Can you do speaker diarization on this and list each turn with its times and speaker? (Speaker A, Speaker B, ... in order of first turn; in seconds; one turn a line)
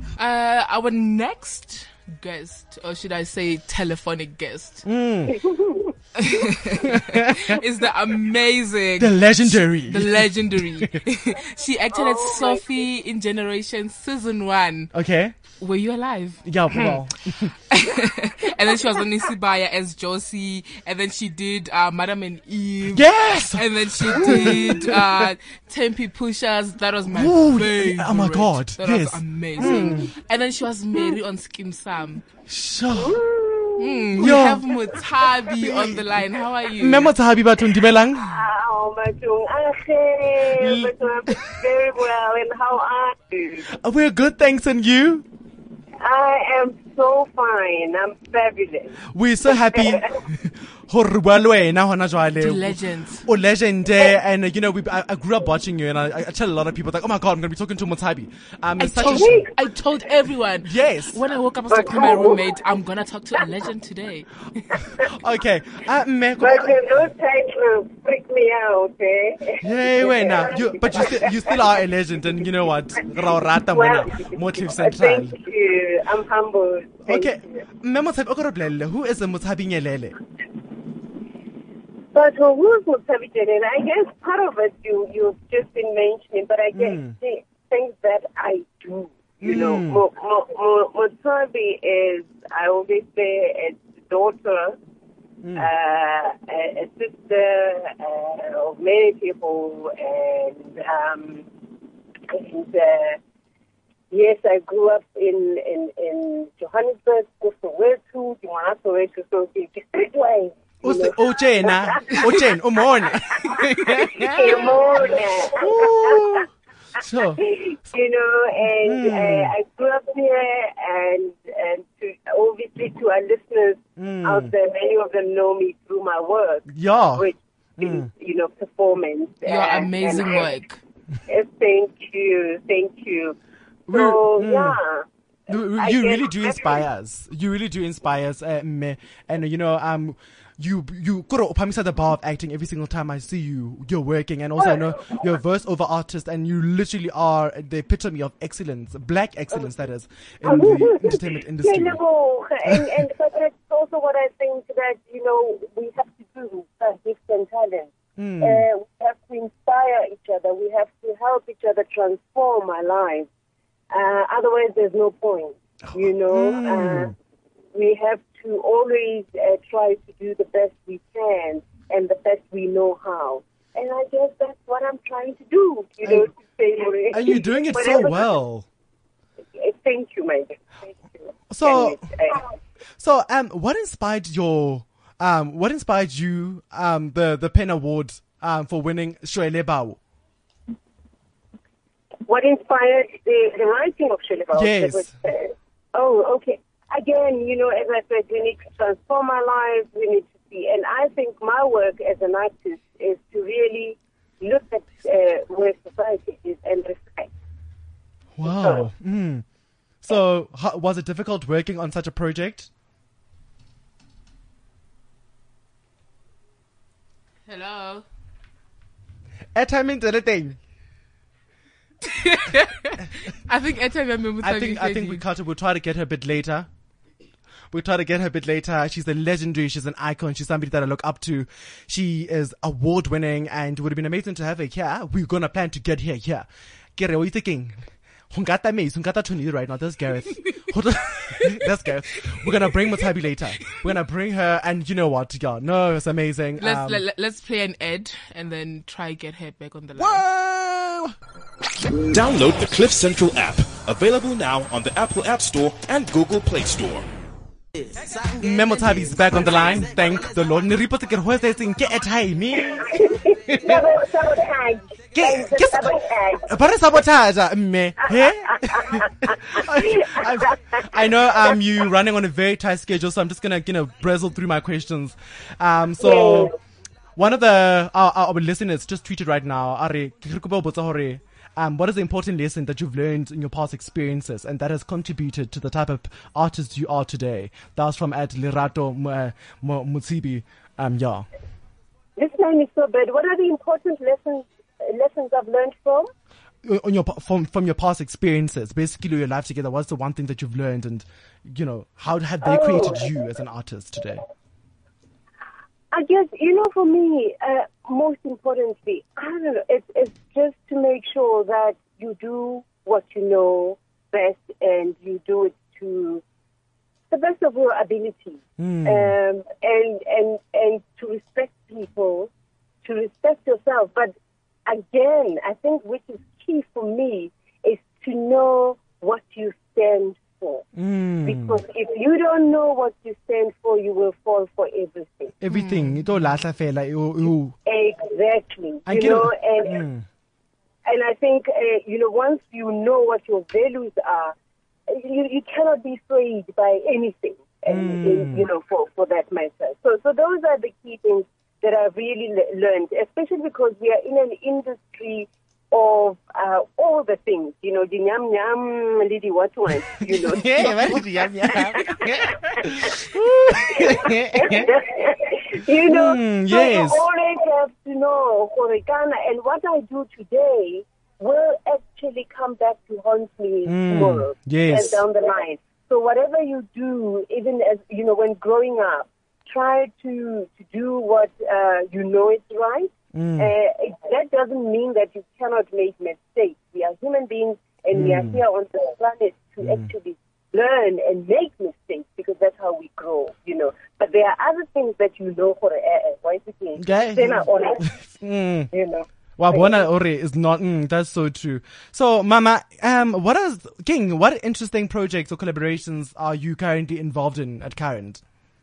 Speaker A: 0.2-4.9
Speaker B: 4.8-5.4
Speaker C: 5.3-5.9
Speaker A: 6.2-14.9
Speaker B: 6.8-7.6
Speaker B: 9.0-11.0
Speaker C: 12.0-12.6
Speaker B: 14.9-15.3
Speaker A: 15.6-17.0
Speaker B: 16.4-17.5
Speaker A: 17.7-32.2
Speaker B: 22.9-25.3
Speaker B: 27.1-30.1
Speaker B: 32.5-33.2
Speaker C: 32.9-34.4
Speaker A: 33.8-37.2
Speaker B: 34.1-34.7
Speaker B: 35.6-36.1
Speaker B: 36.8-38.4
Speaker C: 38.2-43.7
Speaker B: 40.5-40.9
Speaker B: 43.7-45.3
Speaker C: 46.0-49.0
Speaker B: 49.1-59.5
Speaker C: 49.5-50.1
Speaker A: 52.4-53.3
Speaker A: 58.8-64.8
Speaker C: 59.1-59.5
Speaker B: 60.6-61.2
Speaker C: 61.7-62.5
Speaker B: 65.0-66.9
Speaker C: 66.4-71.7
Speaker B: 69.6-75.4
Speaker C: 73.7-77.6
Speaker B: 77.1-80.2
Speaker C: 82.1-94.8
Speaker B: 86.7-87.2
Speaker B: 89.4-90.0
Speaker B: 95.4-95.7
Speaker C: 95.6-101.5
Speaker C: 102.3-103.2
Speaker C: 104.1-112.5
Speaker B: 110.8-117.4
Speaker C: 113.1-116.5
Speaker C: 117.3-130.5
Speaker B: 118.8-119.5
Speaker B: 124.0-124.5
Speaker B: 126.7-128.1
Speaker A: 129.4-130.8
Speaker C: 131.3-133.4
Speaker B: 133.9-134.8
Speaker C: 133.9-135.1
Speaker B: 135.5-152.0
Speaker C: 135.8-136.8
Speaker C: 150.4-163.3
Speaker B: 152.7-153.1
Speaker B: 158.2-158.7
Speaker C: 163.9-167.1
Speaker B: 165.9-167.1
Speaker C: 167.7-178.3
Speaker B: 177.1-178.7
Speaker C: 179.5-182.5
Speaker B: 181.5-182.1
Speaker B: 183.0-190.0
Speaker C: 192.3-207.3
Speaker B: 194.5-195.1
Speaker B: 208.4-209.4
Speaker C: 208.4-208.9
Speaker B: 210.0-212.7
Speaker A: 217.5-218.1
Speaker B: 219.6-220.6
Speaker A: 222.1-225.2
Speaker B: 224.4-226.7
Speaker B: 227.7-247.0
Speaker A: 246.6-250.2
Speaker B: 250.0-251.2
Speaker D: 252.1-257.1
Speaker B: 258.3-263.9
Speaker C: 262.6-266.5
Speaker B: 265.1-276.5
Speaker C: 268.2-270.6
Speaker C: 276.0-276.5
Speaker B: 277.2-291.3
Speaker C: 292.2-296.1
Speaker B: 296.6-304.2
Speaker C: 302.4-303.2
Speaker C: 305.9-316.2
Speaker C: 317.1-322.3
Speaker B: 318.6-319.1
Speaker C: 322.8-324.1
Speaker C: 324.7-330.7
Speaker B: 330.8-331.6
Speaker C: 331.2-335.3
Speaker B: 335.4-337.6
Speaker A: 335.5-336.0
Speaker C: 337.7-339.8
Speaker B: 338.9-340.1
Speaker C: 340.9-344.4
Speaker C: 344.9-398.0
Speaker B: 347.7-348.5
Speaker B: 360.0-364.7
Speaker B: 365.9-367.0
Speaker B: 373.6-375.1
Speaker B: 383.1-383.5
Speaker B: 387.9-388.4
Speaker B: 389.6-389.9
Speaker B: 396.8-398.7
Speaker C: 398.7-399.8
Speaker B: 399.4-408.2